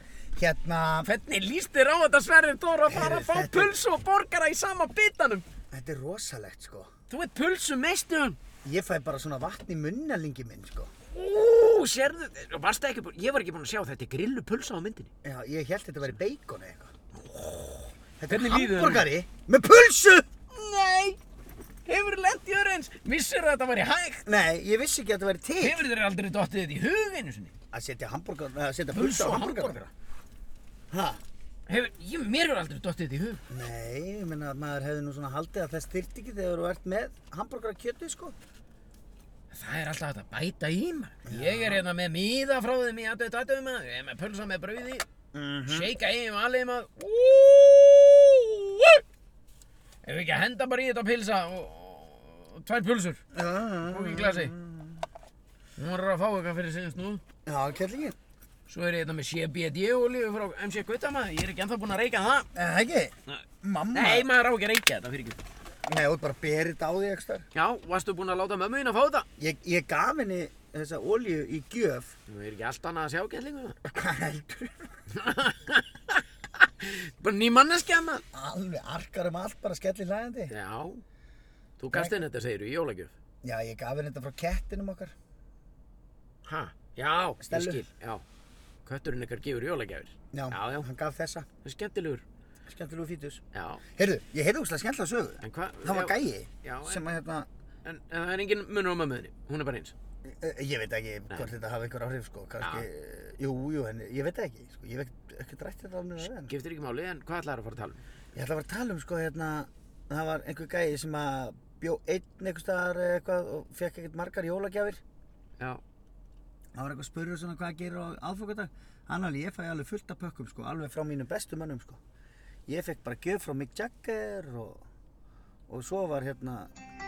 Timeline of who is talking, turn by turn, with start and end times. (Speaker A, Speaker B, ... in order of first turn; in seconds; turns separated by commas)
Speaker A: 0.3-1.1, Speaker B: 1.1-5.5, Speaker A: 2.9-3.8, Speaker A: 5.7-6.9, Speaker B: 7.1-8.4, Speaker A: 8.6-10.9, Speaker B: 11.1-15.1, Speaker A: 15.2-16.9, Speaker B: 17.1-19.1, Speaker A: 18.2-20.3, Speaker B: 20.5-21.2, Speaker B: 21.9-24.3, Speaker A: 24.3-25.8, Speaker B: 25.6-27.5, Speaker A: 27.7-29.9, Speaker B: 28.9-29.9, Speaker A: 30.9-31.2, Speaker B: 31.7-33.4, Speaker A: 33.5-38.4, Speaker B: 39.5-45.0, Speaker A: 41.3-41.9, Speaker A: 45.3-45.9, Speaker B: 45.7-49.0, Speaker B: 50.0-53.2, Speaker A: 53.3-55.0, Speaker B: 53.8-54.5, Speaker B: 55.8-57.2, Speaker A: 57.5-58.2, Speaker B: 58.7-62.5, Speaker A: 62.5-64.3, Speaker B: 63.9-65.4, Speaker A: 65.9-67.5, Speaker B: 67.5-69.3, Speaker A: 69.4-72.1, Speaker B: 72.3-73.9, Speaker A: 73.9-74.9, Speaker B: 75.1-78.2, Speaker A: 78.3-80.5, Speaker B: 80.5-81.0, Speaker B: 81.8-83.1, Speaker A: 81.9-82.2, Speaker A: 83.4-85.2, Speaker B: 86.5-88.2, Speaker A: 87.4-87.8, Speaker B: 88.9-90.9, Speaker A: 90.3-91.5, Speaker B: 91.6-92.2, Speaker A: 92.7-93.4, Speaker B: 93.5-93.8, Speaker A: 93.9-97.5, Speaker B: 95.4-97.0, Speaker B: 97.8-99.9, Speaker A: 100.2-106.5, Speaker B: 102.6-102.9, Speaker B: 106.2-108.0, Speaker A: 108.3-115.0, Speaker A: 116.8-122.0, Speaker A: 122.7-124.8, Speaker A: 125.7-126.7